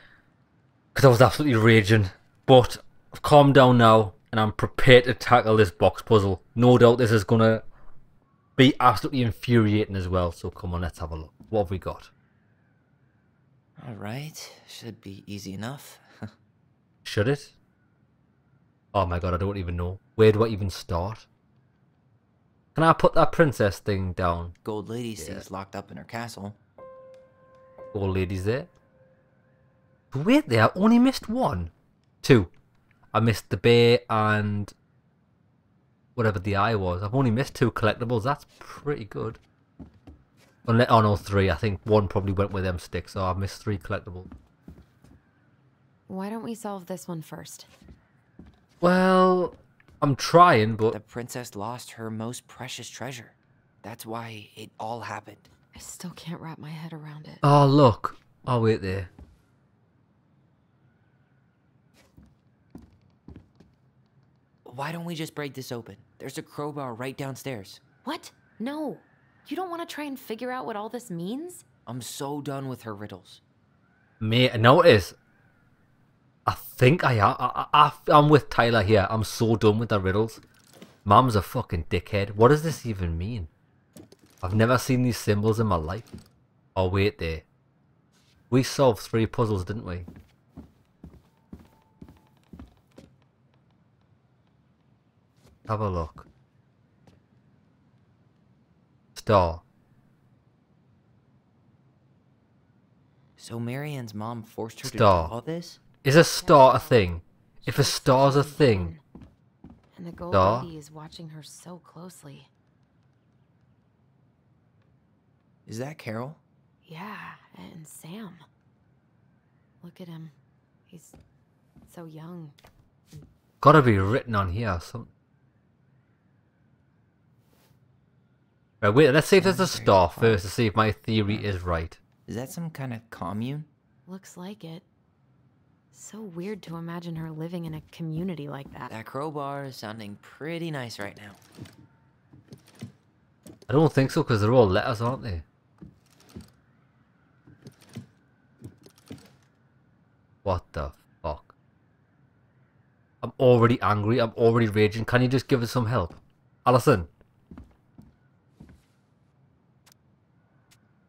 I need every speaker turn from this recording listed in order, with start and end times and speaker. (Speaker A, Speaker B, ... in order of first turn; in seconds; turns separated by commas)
Speaker A: 0.9-7.7, Speaker A: 8.6-12.1, Speaker B: 13.8-16.3, Speaker A: 17.1-17.6, Speaker A: 18.9-21.3, Speaker A: 22.8-24.6, Speaker B: 24.6-26.6, Speaker A: 25.2-25.5, Speaker A: 27.9-28.7, Speaker A: 30.1-31.7, Speaker A: 32.2-32.5, Speaker A: 33.1-34.7, Speaker A: 36.2-39.4, Speaker A: 40.7-44.3, Speaker C: 46.1-47.7, Speaker A: 48.8-51.0, Speaker B: 50.9-55.5, Speaker C: 55.7-57.4, Speaker A: 57.4-59.1, Speaker B: 64.7-67.8, Speaker C: 68.0-71.6, Speaker B: 71.9-73.4, Speaker A: 74.2-75.2, Speaker A: 76.5-80.4, Speaker A: 81.0-83.5, Speaker A: 84.4-86.1, Speaker A: 86.8-87.5, Speaker A: 88.5-90.1, Speaker A: 95.7-96.3, Speaker A: 99.2-99.6, Speaker B: 103.4-105.8, Speaker A: 104.8-105.3, Speaker A: 106.0-108.9, Speaker C: 106.4-107.0, Speaker C: 107.6-109.0, Speaker C: 109.9-112.5, Speaker A: 110.3-110.7, Speaker B: 115.7-116.4, Speaker C: 116.8-118.4, Speaker C: 119.8-120.3, Speaker C: 120.9-121.2, Speaker C: 121.9-122.5, Speaker A: 123.6-125.1, Speaker A: 128.8-132.0, Speaker B: 129.4-130.4, Speaker B: 132.3-133.7, Speaker C: 134.1-134.9, Speaker C: 135.9-138.9, Speaker B: 138.9-141.4, Speaker A: 143.7-145.4, Speaker A: 150.4-151.5, Speaker A: 153.2-157.1